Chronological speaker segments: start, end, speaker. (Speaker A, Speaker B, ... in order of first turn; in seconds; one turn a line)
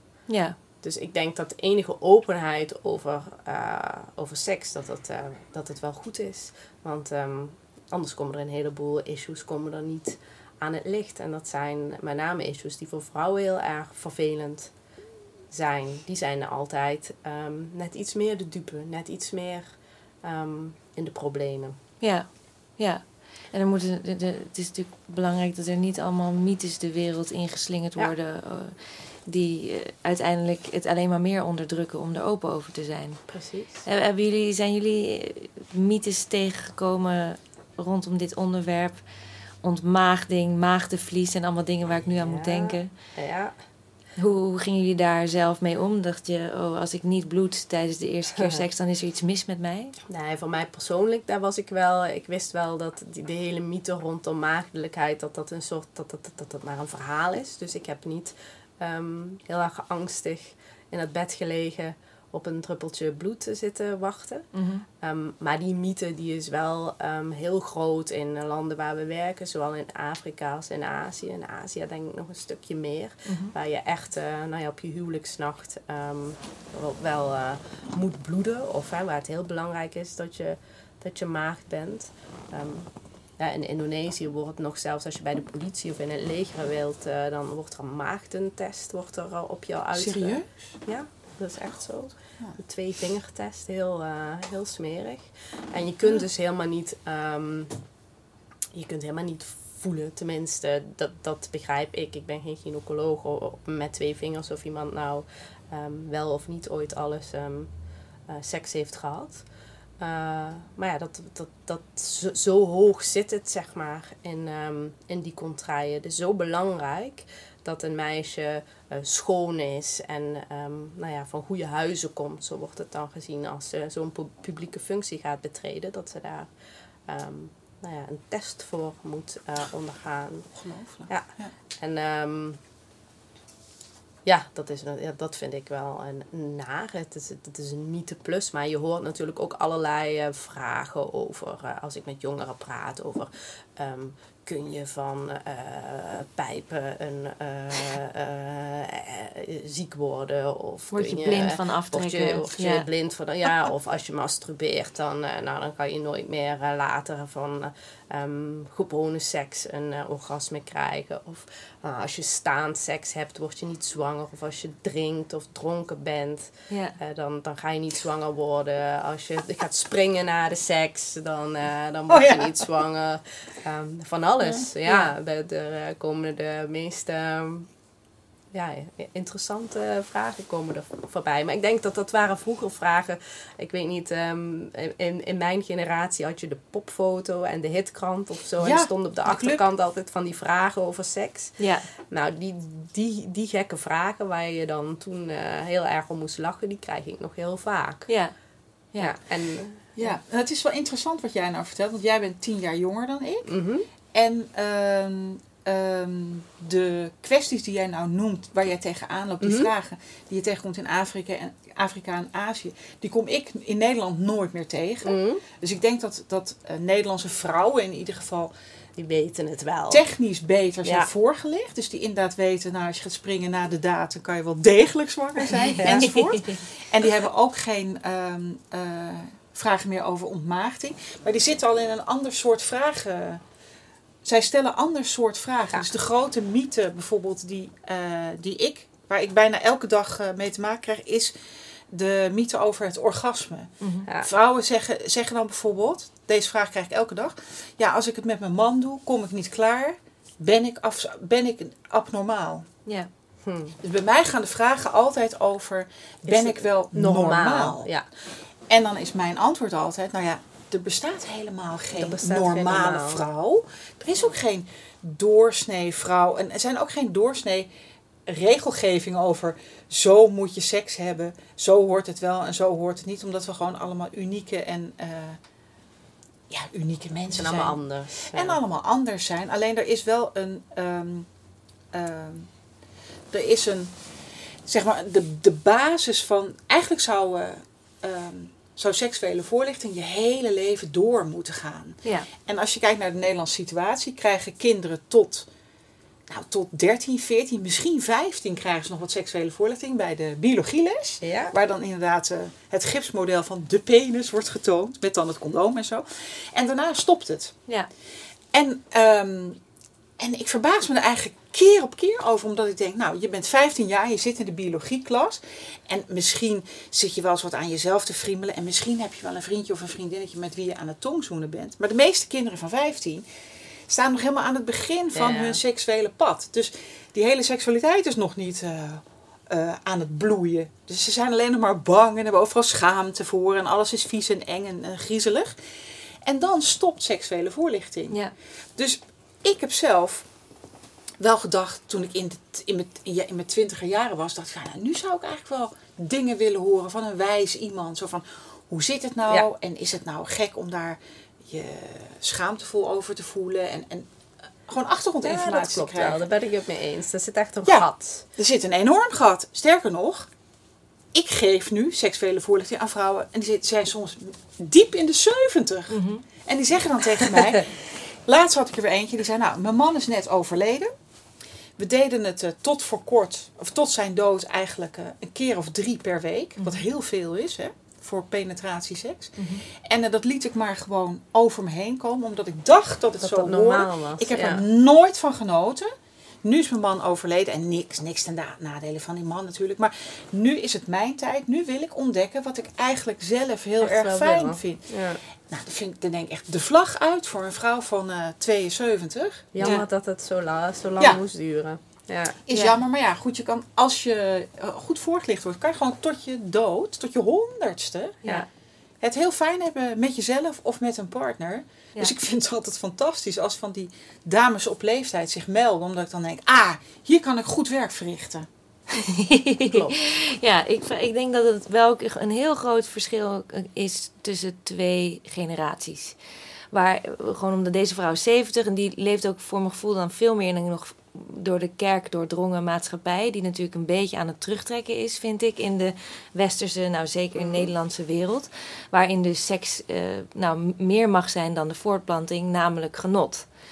Speaker A: 0.3-0.6
Speaker B: 0.8-14.7
Speaker B: 15.5-19.7
Speaker B: 20.2-21.8
Speaker A: 22.0-33.2
Speaker B: 33.3-33.9
Speaker A: 33.9-39.0
Speaker A: 39.6-42.9
Speaker B: 42.2-43.5
Speaker A: 44.2-50.0
Speaker B: 48.4-48.6
Speaker B: 50.1-64.5
Speaker A: 64.5-64.8
Speaker B: 65.0-97.8
Speaker A: 73.3-73.5
Speaker C: 90.0-90.5
Speaker B: 98.7-107.7
Speaker B: 108.3-109.4
Speaker B: 110.0-126.5
Speaker B: 127.1-130.5
Speaker C: 130.6-131.5
Speaker B: 131.8-132.6
Speaker B: 134.2-177.7
Speaker A: 150.9-152.9
Speaker A: 166.7-167.0
Speaker C: 172.1-172.7
Speaker A: 174.8-175.1
Speaker B: 178.5-191.6
Speaker C: 188.6-189.6
Speaker A: 191.6-191.9
Speaker B: 192.1-198.1
Speaker A: 198.1-198.3
Speaker B: 199.0-199.9
Speaker C: 200.0-203.5
Speaker B: 203.5-203.9
Speaker C: 204.1-218.5
Speaker B: 209.4-209.7
Speaker B: 215.0-215.4
Speaker B: 219.0-220.1
Speaker C: 219.9-233.4
Speaker B: 220.8-221.1
Speaker A: 225.8-226.2
Speaker B: 225.8-226.1
Speaker C: 234.2-241.3
Speaker C: 241.9-252.7
Speaker A: 243.8-244.1
Speaker B: 253.4-253.8
Speaker C: 253.8-257.9
Speaker B: 256.3-258.1
Speaker C: 258.7-267.7
Speaker B: 261.9-263.3
Speaker C: 268.3-275.4
Speaker C: 276.5-281.3
Speaker B: 277.3-278.6
Speaker C: 281.9-282.5
Speaker C: 283.3-283.9
Speaker C: 284.7-295.5
Speaker A: 292.0-292.3
Speaker C: 296.3-307.6
Speaker B: 301.2-301.5
Speaker C: 308.5-309.6
Speaker C: 310.2-323.2
Speaker C: 323.9-335.6
Speaker B: 325.1-325.6
Speaker C: 336.2-338.2
Speaker C: 338.8-340.2
Speaker C: 341.2-354.1
Speaker C: 354.7-356.2
Speaker B: 355.2-358.3
Speaker C: 357.6-360.3
Speaker C: 361.1-370.9
Speaker A: 365.9-366.2
Speaker C: 371.8-385.9
Speaker A: 379.4-379.6
Speaker B: 383.2-384.6
Speaker C: 386.4-394.9
Speaker B: 393.8-395.2
Speaker C: 395.5-399.7
Speaker B: 399.5-402.4
Speaker C: 402.5-408.4
Speaker A: 402.5-402.8
Speaker C: 409.0-418.5
Speaker A: 418.9-426.2
Speaker A: 426.7-443.5
Speaker B: 437.4-437.7